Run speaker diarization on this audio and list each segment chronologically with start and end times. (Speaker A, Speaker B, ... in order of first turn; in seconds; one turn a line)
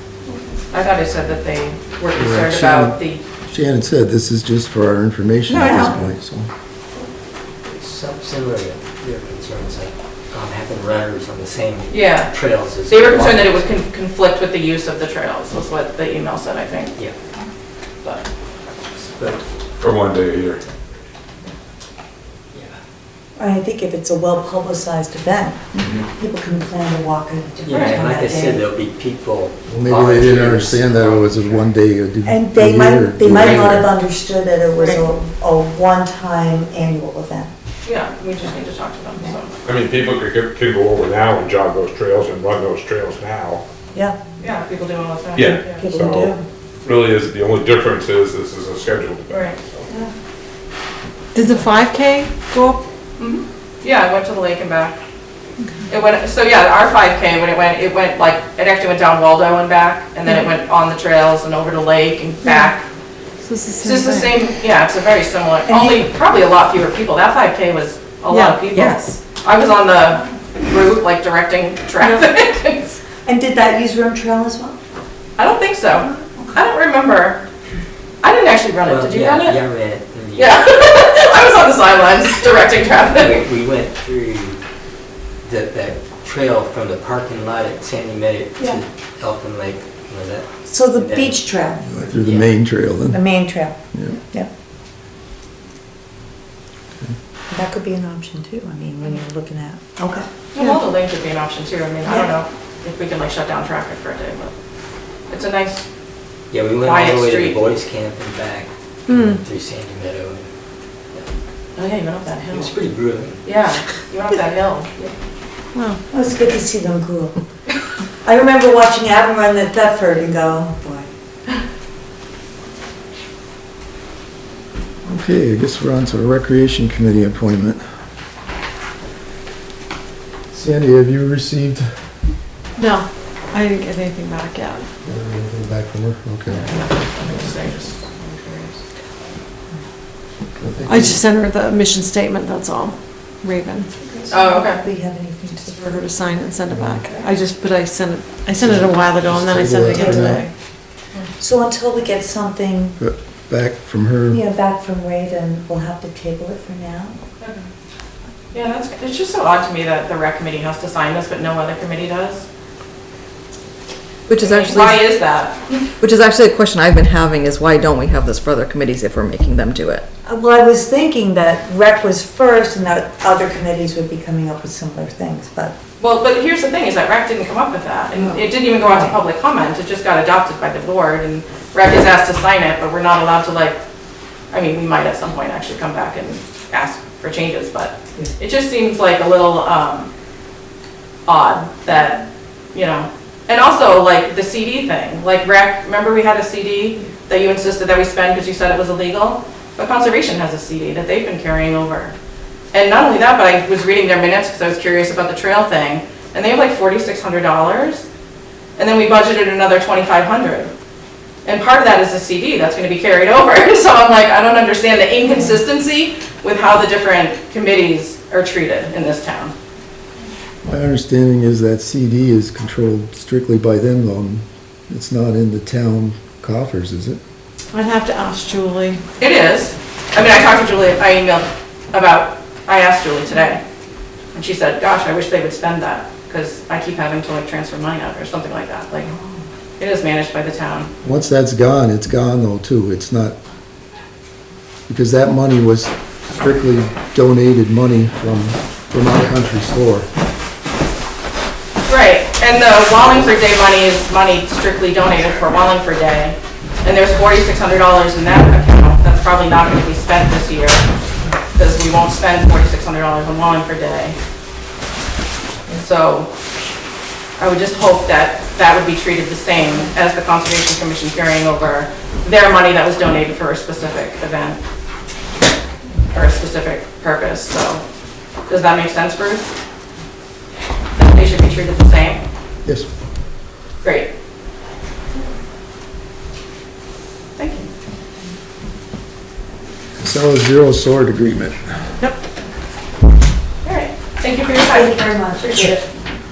Speaker A: 0.7-3.2
Speaker B: 2.1-6.5
Speaker C: 5.5-6.0
Speaker D: 7.7-13.7
Speaker A: 11.9-12.3
Speaker A: 12.8-16.9
Speaker D: 19.1-19.4
Speaker E: 19.8-20.6
Speaker F: 23.4-28.7
Speaker D: 27.6-31.7
Speaker A: 27.7-28.0
Speaker B: 29.7-33.9
Speaker F: 32.2-37.5
Speaker D: 33.3-33.6
Speaker A: 37.9-39.5
Speaker E: 39.6-43.6
Speaker A: 44.4-45.9
Speaker E: 45.4-49.5
Speaker F: 45.7-46.4
Speaker A: 49.3-49.6
Speaker G: 51.3-52.8
Speaker A: 53.2-55.0
Speaker A: 55.9-62.9
Speaker G: 63.4-64.3
Speaker A: 63.8-73.0
Speaker F: 65.7-66.0
Speaker G: 68.3-68.7
Speaker C: 68.7-69.2
Speaker G: 72.0-72.3
Speaker F: 73.2-74.8
Speaker A: 75.4-77.4
Speaker F: 76.1-76.5
Speaker A: 78.2-79.6
Speaker D: 78.8-80.6
Speaker A: 80.3-83.5
Speaker D: 83.1-84.6
Speaker D: 85.4-91.4
Speaker F: 90.7-91.9
Speaker B: 91.9-93.2
Speaker D: 92.1-92.5
Speaker F: 93.1-93.8
Speaker F: 97.5-100.3
Speaker A: 100.5-104.5
Speaker F: 102.0-102.3
Speaker A: 105.3-105.8
Speaker D: 106.5-110.5
Speaker A: 106.8-107.6
Speaker G: 109.1-109.4
Speaker A: 111.8-112.7
Speaker D: 112.5-113.4
Speaker A: 113.4-115.1
Speaker G: 115.7-116.0
Speaker F: 116.1-117.4
Speaker F: 118.2-121.1
Speaker B: 125.0-127.8
Speaker B: 130.5-131.9
Speaker G: 132.8-134.9
Speaker B: 135.0-136.7
Speaker A: 136.5-138.8
Speaker B: 140.6-141.2
Speaker G: 140.9-143.9
Speaker F: 144.0-146.0
Speaker A: 144.3-144.8
Speaker G: 145.6-150.5
Speaker B: 146.7-147.0
Speaker B: 148.6-150.4
Speaker F: 149.9-150.4
Speaker F: 151.4-153.0
Speaker B: 153.0-154.4
Speaker F: 154.3-157.2
Speaker A: 157.4-157.7
Speaker A: 158.5-162.5
Speaker C: 164.3-165.2
Speaker A: 164.4-165.9
Speaker C: 166.0-170.1
Speaker F: 170.3-175.8
Speaker A: 176.0-183.8
Speaker F: 178.2-179.2
Speaker A: 184.5-190.1
Speaker A: 191.3-192.2
Speaker A: 192.7-202.2
Speaker A: 202.7-208.1
Speaker A: 208.8-210.7
Speaker A: 211.4-219.5
Speaker B: 220.6-227.2
Speaker G: 227.7-229.0
Speaker A: 229.2-233.6
Speaker A: 234.3-239.2
Speaker A: 239.8-240.9
Speaker B: 241.0-243.4
Speaker B: 244.9-250.1
Speaker A: 251.9-260.9
Speaker A: 261.6-264.2
Speaker A: 265.7-266.3
Speaker A: 267.4-274.6
Speaker A: 276.1-277.9
Speaker A: 278.5-279.5
Speaker A: 281.0-282.2
Speaker B: 282.6-282.9
Speaker A: 283.8-284.1
Speaker A: 287.4-287.7
Speaker B: 290.0-291.6
Speaker A: 293.6-295.8
Speaker F: 294.7-295.8